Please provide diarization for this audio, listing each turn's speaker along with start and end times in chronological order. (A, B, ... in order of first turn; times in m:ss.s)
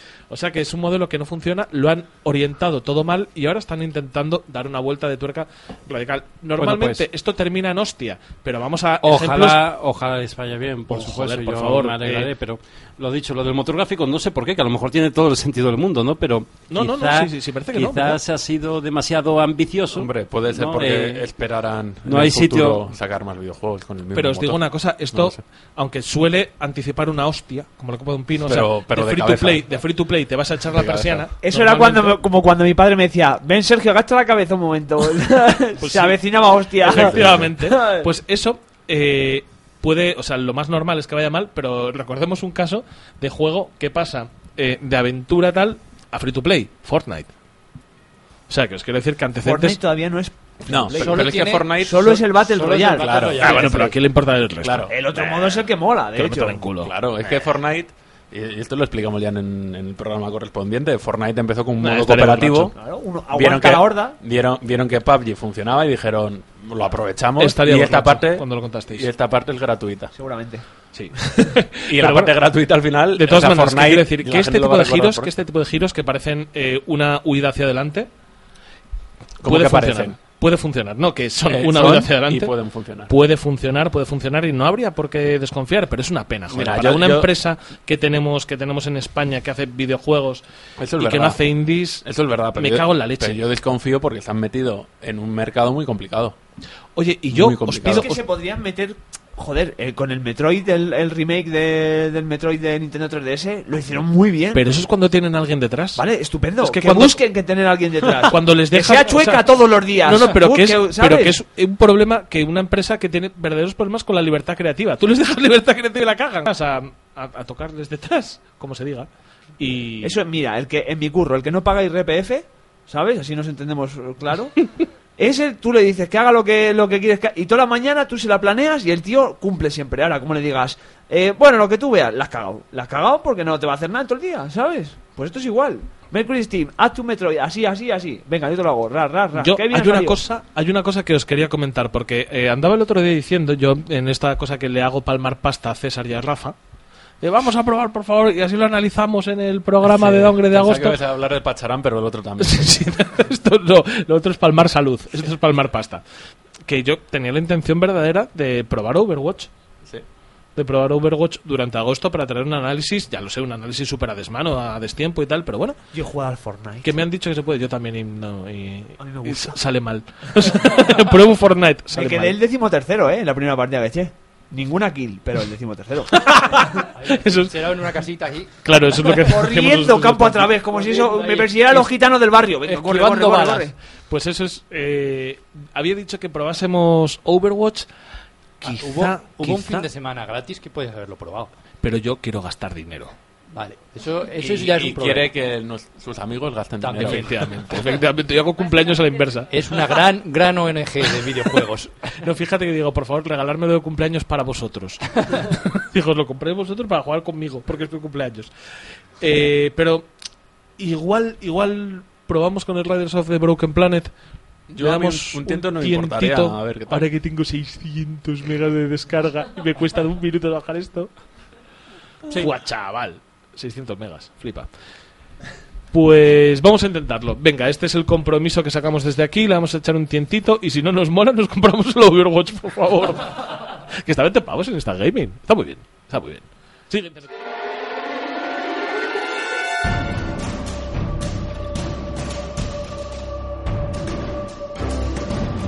0:00.3-0:09.6 A
0:06.6-0:07.0 B
0:09.0-0:21.2 B
0:10.9-0:12.3 A
0:16.7-0:18.2 A
0:19.9-0:24.6 C
0:22.0-0:22.9 B
0:24.1-0:32.2 A
0:25.1-0:25.4 C
0:28.4-0:29.7 C
0:30.7-0:31.2 C
0:31.4-0:38.1 D
0:35.8-0:36.2 A
0:36.8-0:47.3 A
0:36.9-0:37.4 C
0:48.5-0:49.8 A
0:49.4-0:53.9 D
0:50.7-0:52.3 C
0:50.9-0:51.9 E
0:52.5-0:53.9 E
0:52.9-0:53.7 C
0:53.4-0:54.9 A
0:54.6-0:55.6 C
0:54.9-0:56.6 D
0:56.1-0:56.9 A
0:56.8-1:02.7 C
1:01.8-1:02.7 A
1:02.7-1:04.2 D
1:03.3-1:10.1 C
1:07.4-1:09.1 A
1:10.1-1:10.6 D
1:10.9-1:12.3 A
1:11.9-1:15.3 C
1:13.1-1:18.1 A
1:19.4-1:20.2 C
1:19.4-1:22.5 A
1:21.4-1:23.1 C
1:23.1-1:30.4 A
1:26.5-1:27.3 C
1:30.8-1:31.4 C
1:31.0-1:33.4 A
1:32.0-1:36.4 C
1:37.0-1:38.2 A
1:37.3-1:38.1 C
1:37.8-1:44.6 D
1:44.5-1:46.0 A
1:46.0-1:51.4 D
1:46.6-1:47.2 A
1:48.2-1:49.5 A
1:50.0-2:00.2 A
2:00.0-2:04.5 D
2:05.2-2:20.2 D
2:19.3-2:26.6 A
2:27.2-2:31.0 A
2:29.8-2:32.7 C
2:32.4-2:36.0 A
2:36.6-2:39.5 A
2:40.6-2:45.8 A
2:45.9-2:47.0 D
2:46.8-2:52.4 A
2:49.0-2:49.6 D
2:51.9-2:56.8 D
2:56.1-2:57.6 A
2:56.9-2:58.5 E
2:58.6-3:00.5 A
2:59.2-3:03.7 D
3:00.7-3:01.9 E
3:02.7-3:03.6 E
3:02.9-3:03.4 A
3:04.1-3:07.9 A
3:08.6-3:09.9 A
3:08.6-3:11.5 E
3:11.8-3:13.1 A
3:13.5-3:15.3 E
3:14.4-3:17.3 C
3:16.8-3:17.5 E
3:16.9-3:19.5 A
3:19.5-3:21.9 E
3:22.1-3:28.5 A
3:29.2-3:30.1 A
3:30.8-3:34.1 A
3:34.7-3:37.1 C
3:34.8-3:41.1 A
3:42.3-3:44.7 A
3:45.9-3:57.3 A